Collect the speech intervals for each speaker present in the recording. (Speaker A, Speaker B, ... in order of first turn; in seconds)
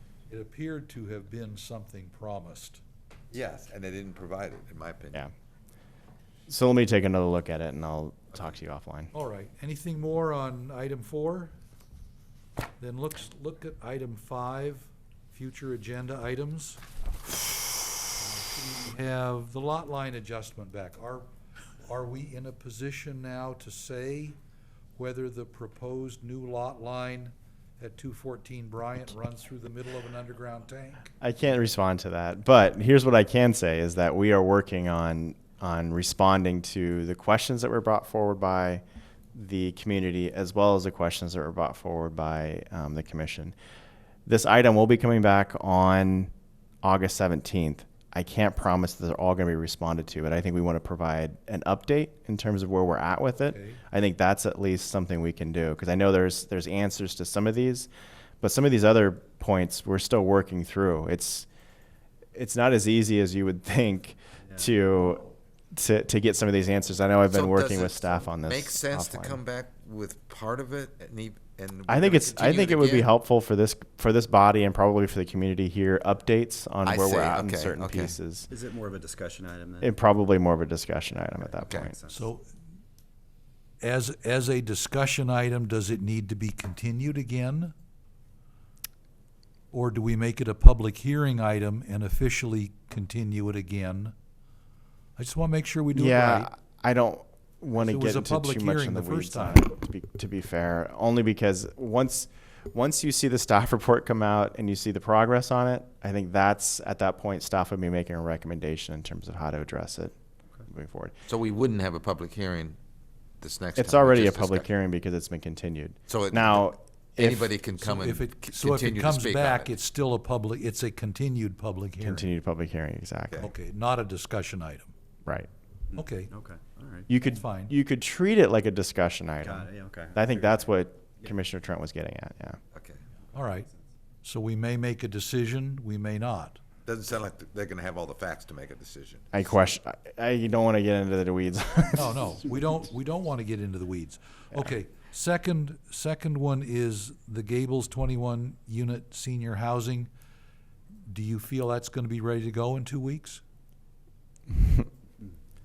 Speaker A: 0.3-2.8, 9.1-11.5, 12.8-16.8, 18.1-24.4, 24.9-31.1, 53.4-53.8, 82.1-82.5, 83.8-87.7, 89.7-94.1, 95.2-96.5, 97.8-99.7, 117.8-122.3, 123.4-124.9, 126.0-126.3, 127.3-127.8, 133.3-133.7, 134.2-136.6, 142.0-150.1, 151.1-153.4
Speaker B: 3.3-5.2, 67.3-73.1, 76.8-78.2, 111.3-112.8, 113.4-114.7, 116.1-119.7, 132.7-133.1, 136.8-139.3
Speaker C: 6.5-9.1, 31.2-38.8, 39.3-43.6, 44.3-46.3, 46.8-57.9, 58.4-61.5, 62.3-69.4, 71.9-78.5, 79.8-82.0, 95.9-110.2, 110.7-111.2, 113.8-117.5, 122.0-123.5, 127.1-132.6, 139.3-142.3, 154.5-154.9
Speaker D: 78.5-80.0, 81.5-82.3, 125.9-127.1, 129.4-130.6